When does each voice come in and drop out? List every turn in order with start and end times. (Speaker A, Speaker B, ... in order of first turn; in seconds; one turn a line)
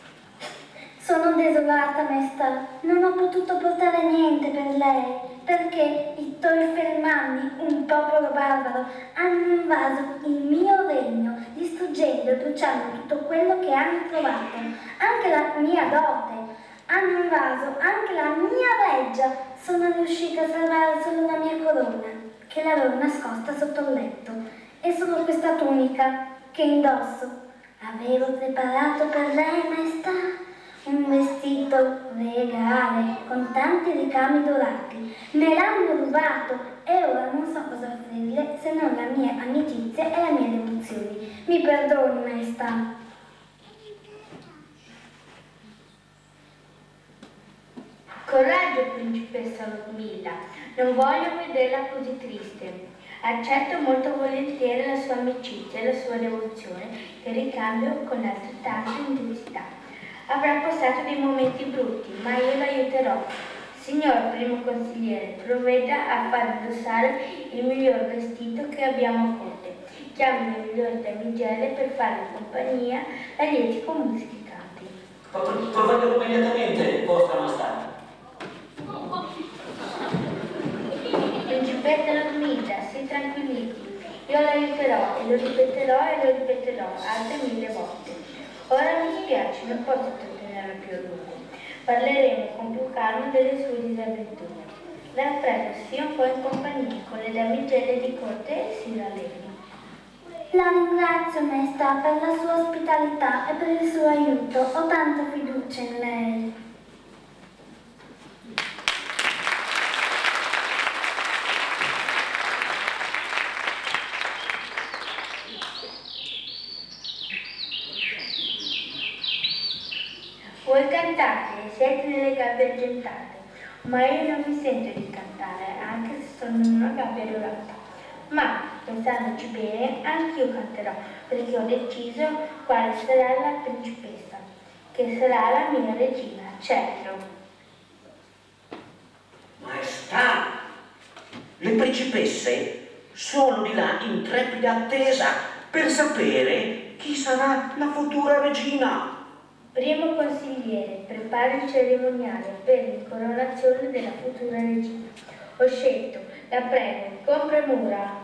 Speaker A: 1.0-30.3
Speaker A: 30.8-42.8
Speaker B: 48.3-59.7
Speaker B: 60.3-74.9
Speaker C: 75.3-77.9
Speaker B: 81.5-99.5
Speaker A: 100.5-106.5
Speaker B: 120.7-127.8
Speaker B: 128.3-137.2
Speaker C: 139.6-140.6
Speaker C: 141.6-149.1
Speaker B: 149.7-155.1
Speaker B: 155.6-158.2